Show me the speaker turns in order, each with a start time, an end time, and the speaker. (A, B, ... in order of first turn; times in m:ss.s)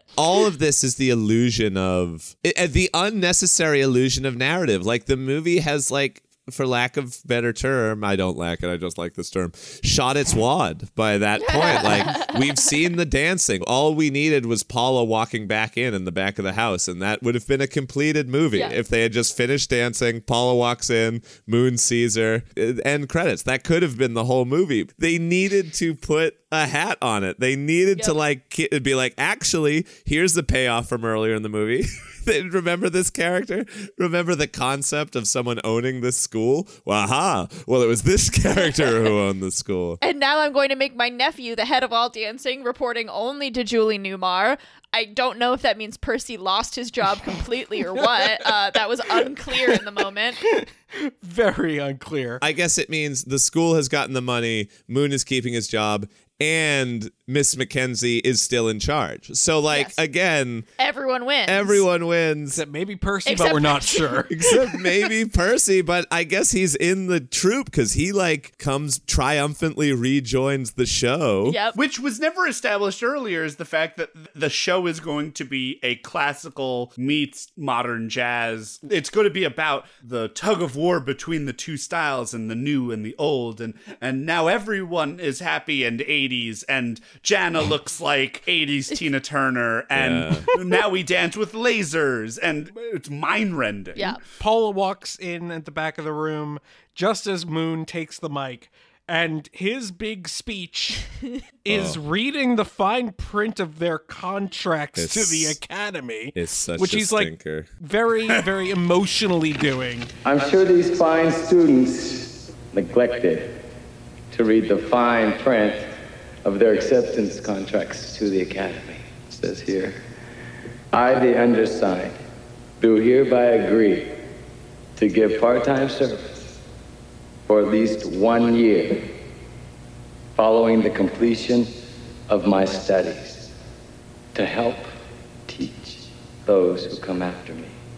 0:00.2-0:40.0 A
0:11.4-0:12.6 B
0:40.0-0:50.4 B
0:50.5-0:52.4 C
0:52.4-1:00.7 A
1:00.8-1:01.8 B
1:01.4-1:02.6 A
1:02.5-1:04.4 C
1:03.2-1:04.5 B
1:04.3-1:11.6 A
1:11.4-1:11.8 B
1:11.8-1:34.2 D
1:29.9-1:30.5 A
1:34.0-1:34.2 B
1:34.4-1:41.0 C
1:41.6-1:50.1 C
1:41.7-1:42.0 A
1:45.0-1:45.6 A
1:46.3-1:47.7 A
1:50.2-1:53.6 E
1:54.3-2:00.0 E
2:00.9-2:02.2 E
2:02.8-2:04.2 E
2:05.0-2:06.5 E
2:07.5-2:09.1 E
2:10.4-2:13.5 E
2:14.3-2:14.9 E
2:15.5-2:17.8 E